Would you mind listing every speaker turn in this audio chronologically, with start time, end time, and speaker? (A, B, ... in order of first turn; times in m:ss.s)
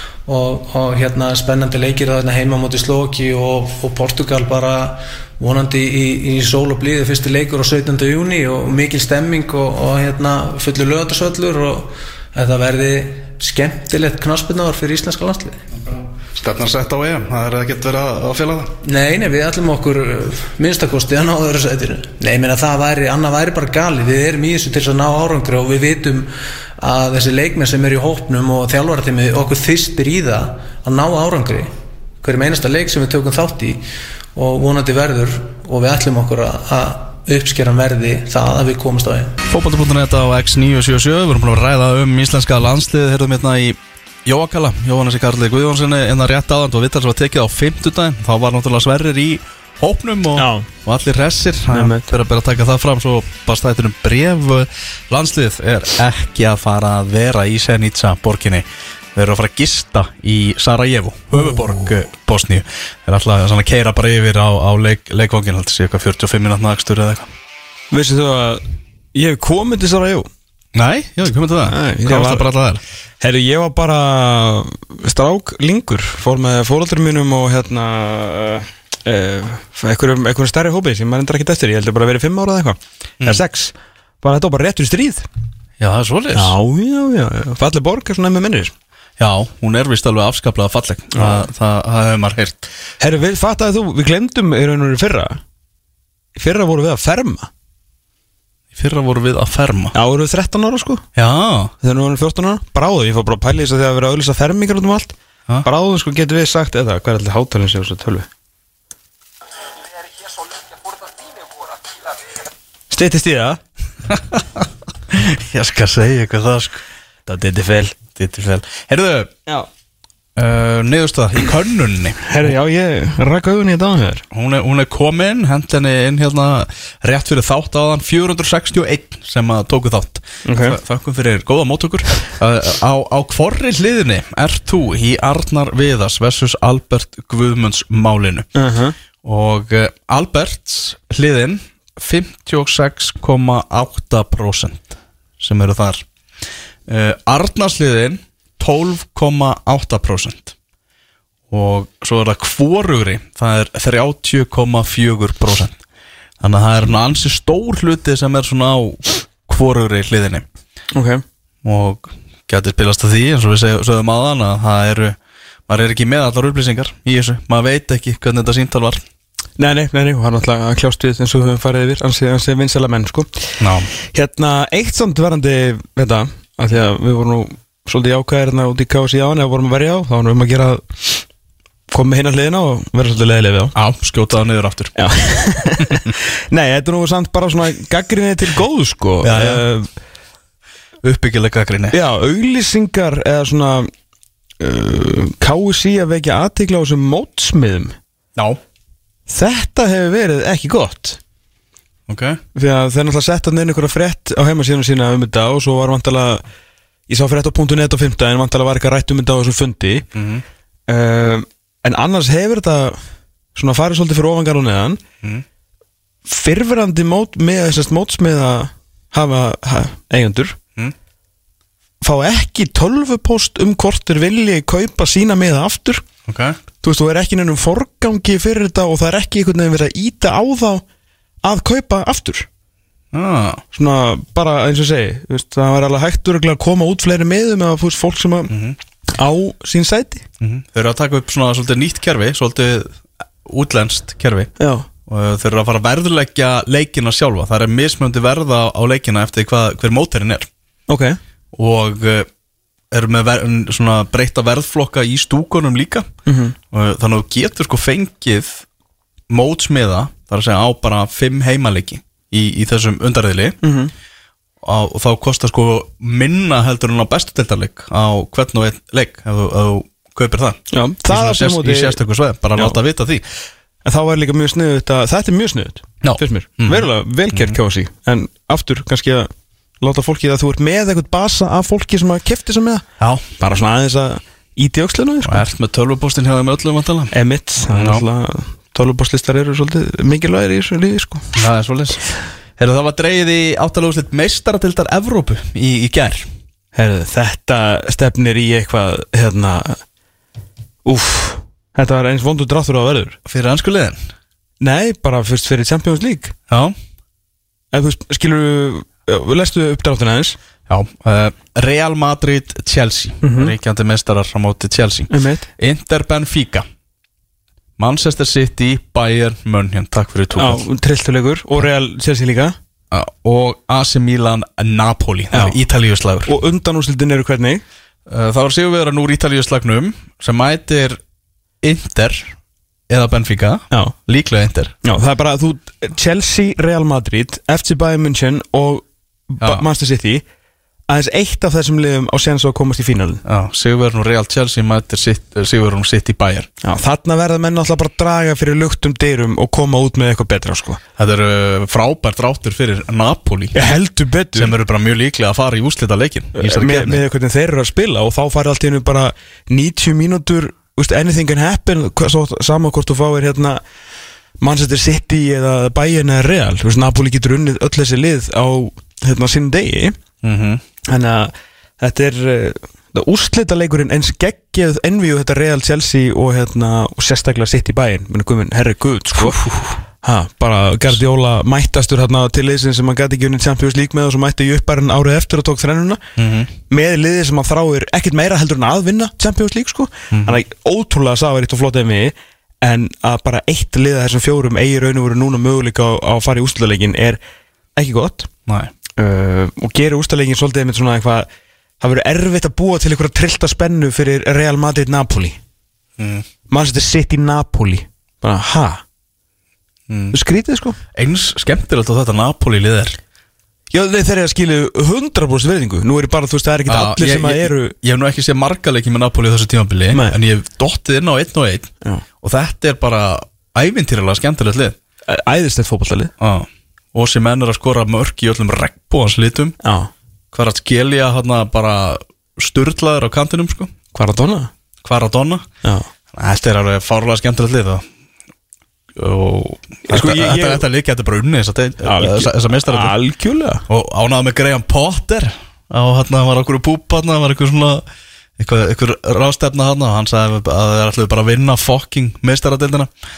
0:00.3-0:15.6 A
0:16.3-0:18.7 B
0:18.8-0:31.7 A
0:32.2-0:33.8 A
0:34.4-0:39.4 A
0:39.5-1:07.3 B
0:50.4-0:50.7 C
0:51.7-0:52.1 C
1:01.3-1:01.9 C
1:07.9-1:08.6 C
1:09.1-1:10.3 C
1:10.8-1:12.8 B
1:11.7-1:12.5 C
1:13.2-1:25.3 C
1:25.8-1:26.6 B
1:26.4-1:28.7 C
1:29.2-1:32.7 B
1:31.2-1:31.5 C
1:33.0-1:35.4 C
1:36.4-1:37.5 C
1:38.8-1:40.0 B
1:39.9-1:41.0 C
1:41.2-1:41.7 B
1:41.8-1:48.3 C
1:52.9-1:53.6 C
1:54.1-1:56.8 B
1:57.3-1:58.0 C
1:58.0-1:59.3 B
2:00.4-2:02.3 B
2:02.2-2:04.2 C
2:04.3-2:18.5 B
2:10.4-2:10.8 C
2:18.6-2:19.0 C
2:19.2-2:26.0 B
2:26.9-2:30.6 B
2:31.5-2:35.8 B
2:36.4-2:40.4 B
2:40.9-2:41.2 C
2:41.6-2:45.2 B
2:45.7-2:49.0 B
2:49.6-3:01.2 C
2:53.6-2:53.9 B
3:01.9-3:03.7 C
3:03.8-3:05.0 B
3:05.0-3:09.9 C
3:05.8-3:06.1 B
3:09.2-3:09.6 B
3:11.0-3:12.0 B
3:11.9-3:13.9 C
3:14.6-3:18.0 C
3:19.3-3:21.2 C
3:22.1-3:22.4 B
3:22.6-3:26.4 C
3:27.1-3:30.1 C
3:30.2-3:30.4 B
3:30.9-3:33.0 C
3:33.6-3:35.0 C
3:36.3-3:40.6 C
3:42.0-3:46.0 C
3:46.3-3:46.6 B
3:46.8-3:50.8 C
3:51.4-3:52.5 C
3:53.1-3:53.6 B
3:53.7-3:58.5 C
3:58.5-3:58.8 B
3:59.1-4:00.2 C
4:00.4-4:04.5 B
4:04.6-4:04.9 C
4:05.1-4:10.5 B
4:10.9-4:11.2 C
4:11.5-4:12.3 B
4:12.9-4:16.1 B
4:16.3-4:16.6 C
4:16.7-4:18.6 B
4:19.3-4:23.6 B
4:23.6-4:23.9 C
4:24.6-4:33.2 B
4:30.7-4:32.0 C
4:33.8-4:39.3 C
4:36.0-4:37.6 B
4:39.8-4:42.8 C
4:43.4-4:45.5 C
4:45.2-4:48.0 B
4:47.1-4:51.3 C
4:51.4-4:56.3 B
4:56.7-4:59.8 C
5:00.8-5:03.2 C
5:03.3-5:04.0 B
5:04.6-5:06.3 C
5:06.5-5:06.8 B
5:07.7-5:10.4 C
5:10.7-5:16.7 B
5:13.2-5:13.6 C
5:15.1-5:15.5 C
5:17.8-5:20.6 B
5:20.4-5:22.6 C
5:22.9-5:26.3 B
5:25.3-5:25.6 C
5:26.3-5:27.6 C
5:28.1-5:31.0 B
5:31.6-5:32.4 B
5:32.9-5:34.8 B
5:34.8-5:40.2 C
5:40.9-5:43.2 C
5:43.2-5:46.5 B
5:46.6-5:50.8 C
5:51.0-5:53.8 B
5:53.5-5:54.6 C
5:54.4-5:57.0 B
5:56.4-6:03.6 C
6:04.4-6:10.0 C
6:10.2-6:10.6 B
6:10.9-6:26.0 C
6:19.2-6:19.8 B
6:26.2-6:26.5 B
6:26.7-6:37.2 C
6:30.1-6:30.4 B
6:37.8-6:38.3 C
6:38.5-6:38.7 B
6:39.0-6:41.3 C
6:41.8-6:45.4 C
6:46.0-6:46.3 B
6:46.5-6:48.8 C
6:49.9-6:50.2 B
6:50.1-6:50.8 C
6:51.0-6:53.0 B
6:53.7-6:57.8 C
6:56.7-7:01.7 B
6:59.9-7:00.2 C
7:02.2-7:04.8 B
7:05.1-7:06.1 C
7:06.2-7:09.6 B
7:09.6-7:09.9 C
7:10.3-7:13.7 B
7:13.9-7:14.5 C
7:14.8-7:15.5 B
7:16.1-7:17.8 B
7:19.0-7:22.9 B
7:19.9-7:20.7 C
7:21.8-7:23.6 C
7:23.7-7:27.8 B
7:28.4-7:32.9 B